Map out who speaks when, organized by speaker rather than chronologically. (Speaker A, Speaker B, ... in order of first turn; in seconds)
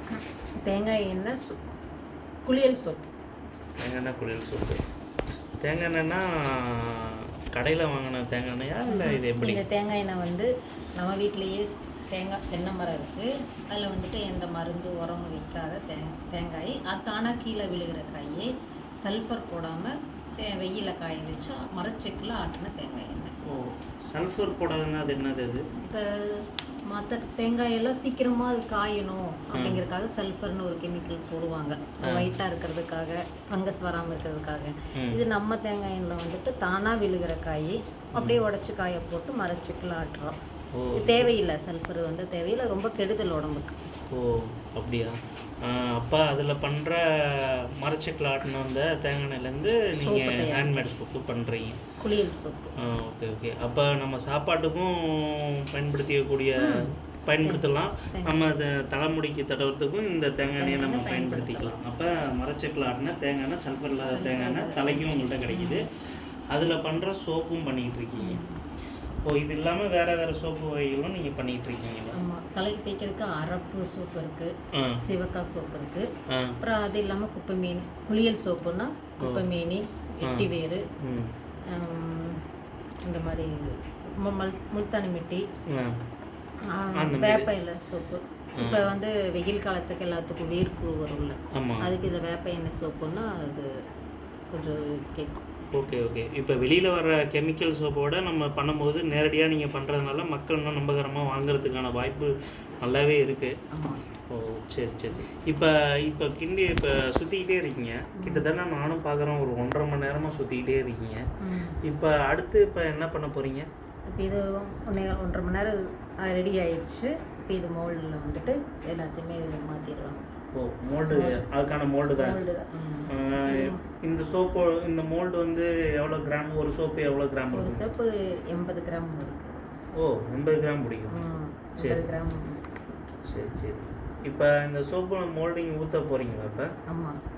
Speaker A: 0.7-1.6, 2.4-3.1, 8.9-18.5, 19.0-23.3, 25.8-40.4, 41.0-43.8, 50.0-50.8, 52.0-52.7, 56.6-58.4, 60.6-61.8, 64.0-65.8, 68.2-68.6, 72.1-76.1, 76.6-80.8, 81.7-82.4, 83.0-85.5, 86.7-93.7, 94.5-95.5, 103.7-104.0, 108.2-108.5, 111.4-111.8, 114.1-120.3, 121.0-121.4, 122.2-123.8, 127.5-129.6, 131.1-132.8, 136.9-137.2
Speaker B: 3.8-4.8, 5.6-9.6, 23.4-25.6, 29.5-29.8, 32.0-32.3, 38.1-38.4, 40.7-41.3, 44.1-51.8, 52.8-65.9, 66.5-68.4, 69.2-72.2, 74.7-75.0, 76.3-76.6, 79.2-79.5, 80.2-80.5, 81.0-81.3, 85.7-86.0, 87.0-87.5, 88.6-88.9, 91.5-91.9, 95.7-103.5, 104.3-111.2, 111.8-113.7, 120.5-122.4, 123.1-127.9, 130.0-131.2, 131.8-132.0, 133.3-136.7